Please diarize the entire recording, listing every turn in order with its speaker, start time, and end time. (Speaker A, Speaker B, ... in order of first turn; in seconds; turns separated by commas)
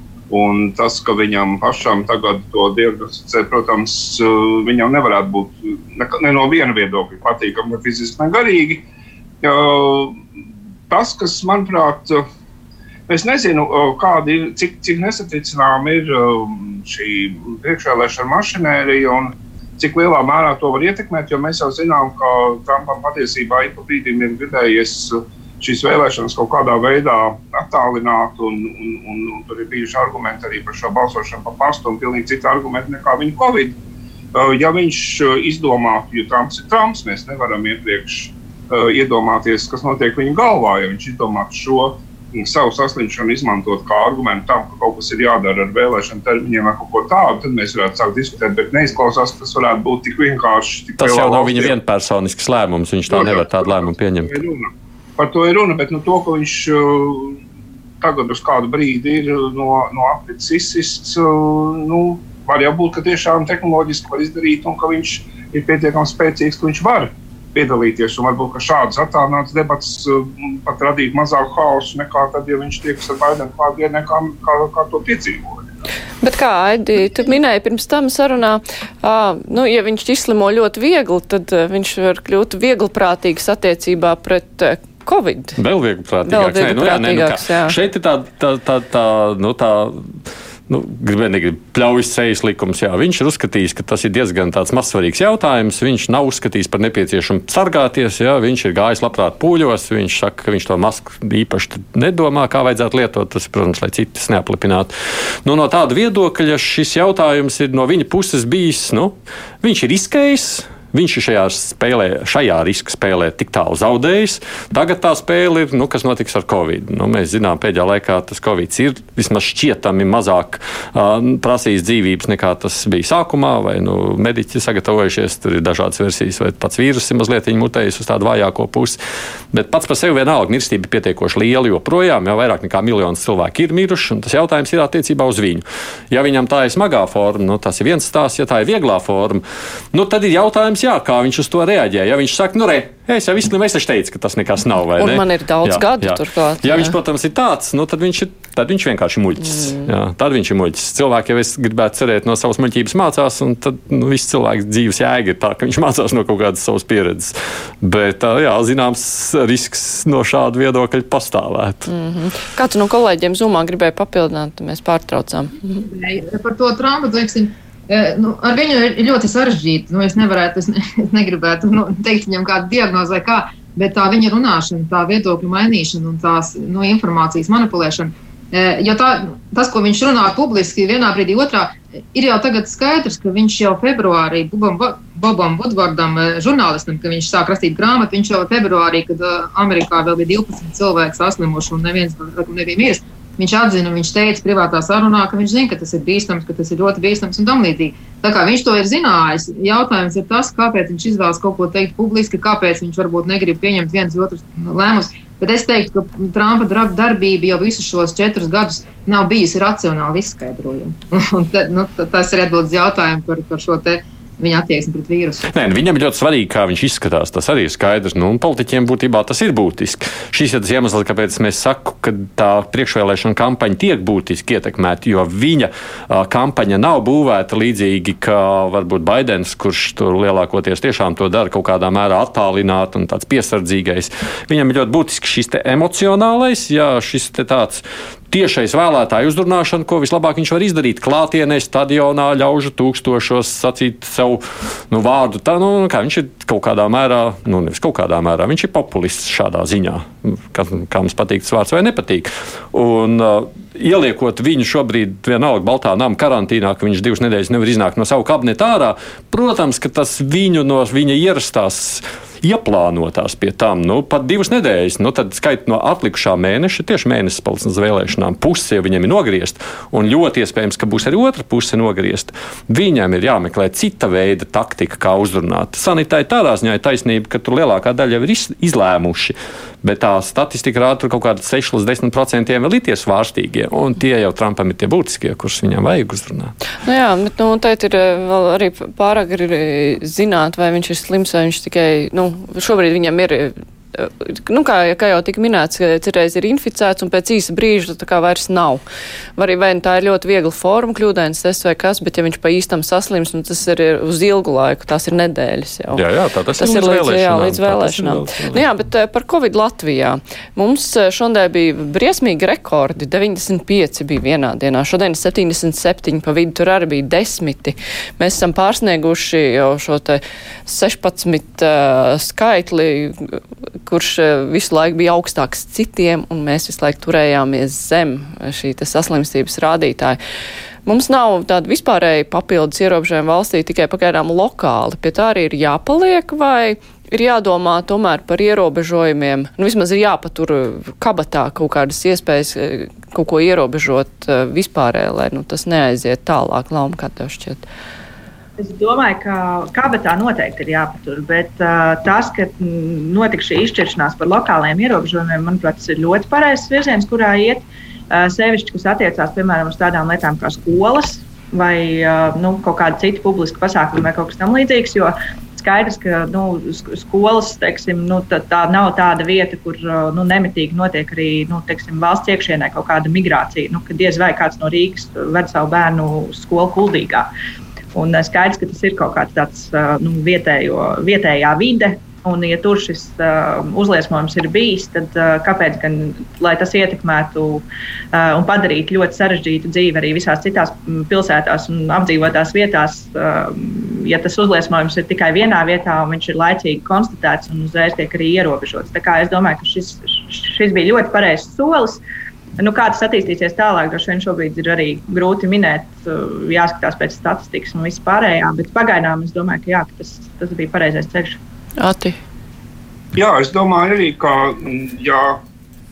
Speaker A: 0.3-8.8, Speaker A: 9.4-10.2, Speaker A: 10.9-12.2, Speaker A: 13.1-33.8, Speaker A: 34.3-51.7, Speaker B: 51.0-54.3, Speaker A: 53.1-57.4, Speaker A: 58.0-75.7, Speaker C: 76.2-85.6, Speaker B: 85.6-90.2, Speaker C: 86.3-87.8, Speaker B: 90.7-104.9, Speaker B: 105.4-129.0, Speaker B: 129.5-161.9, Speaker C: 144.9-147.0, Speaker C: 149.5-149.9, Speaker C: 161.9-165.6, Speaker D: 165.8-215.4, Speaker B: 215.5-286.5, Speaker C: 286.8-298.8, Speaker C: 299.4-306.0, Speaker B: 305.9-308.6, Speaker C: 306.6-330.2, Speaker C: 330.9-347.6, Speaker E: 348.6-377.3, Speaker E: 377.9-402.0, Speaker E: 402.6-411.4, Speaker C: 411.8-412.2, Speaker A: 413.1-415.4